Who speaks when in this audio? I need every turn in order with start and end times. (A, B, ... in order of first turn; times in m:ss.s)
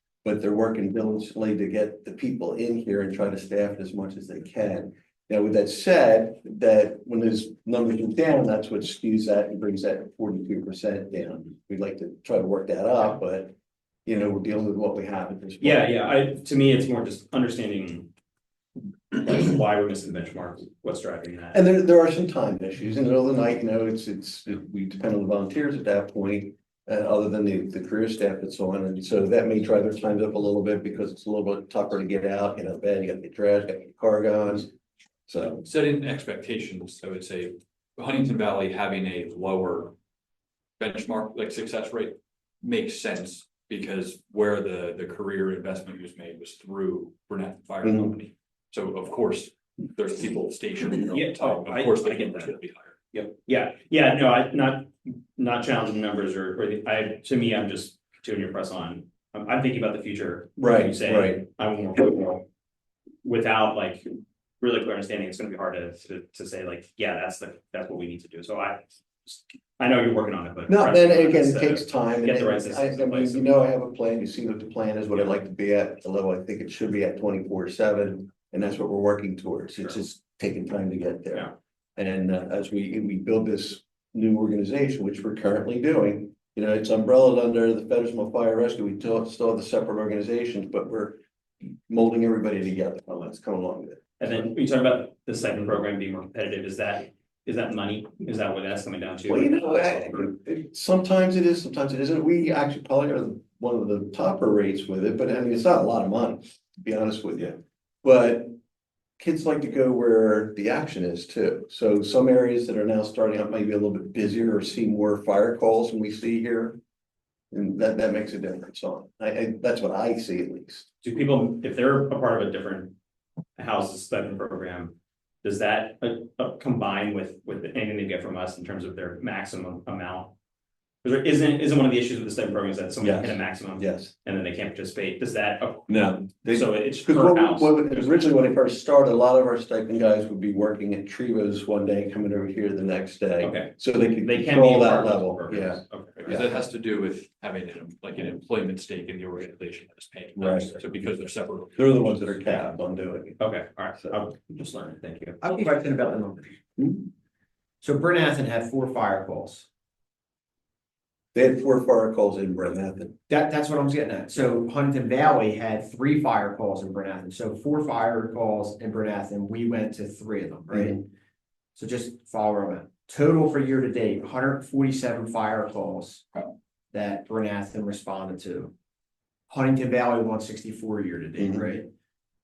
0:00.2-0:13.6 A
0:14.1-0:15.9 A
0:15.6-0:18.1 B
0:19.1-0:21.6 B
0:21.5-0:34.7 A
0:35.3-0:35.6 A
0:35.6-0:40.0 C
0:40.8-0:53.0 C
0:51.1-0:52.6 B
0:53.1-1:02.4 B
1:00.6-1:01.4 A
1:03.2-1:04.1 B
1:04.6-1:13.5 B
1:10.7-1:34.5 A
1:34.2-1:40.2 B
1:39.3-1:48.6 A
1:49.2-1:56.8 A
1:57.5-2:00.9 A
2:01.0-2:02.9 B
2:03.6-2:10.3 B
2:11.0-2:17.8 B
2:13.0-2:14.1 A
2:15.9-2:26.4 A
2:23.4-2:26.3 B
2:26.2-2:32.8 C
2:30.4-2:30.8 A
2:31.8-2:33.4 A
2:33.4-2:35.4 B
2:35.4-2:36.6 D
2:36.8-2:37.0 A
2:37.8-2:39.7 D
2:41.3-2:43.2 A
2:43.3-2:51.1 D
2:51.8-2:56.3 D
2:56.9-2:58.7 D
2:59.5-3:01.9 D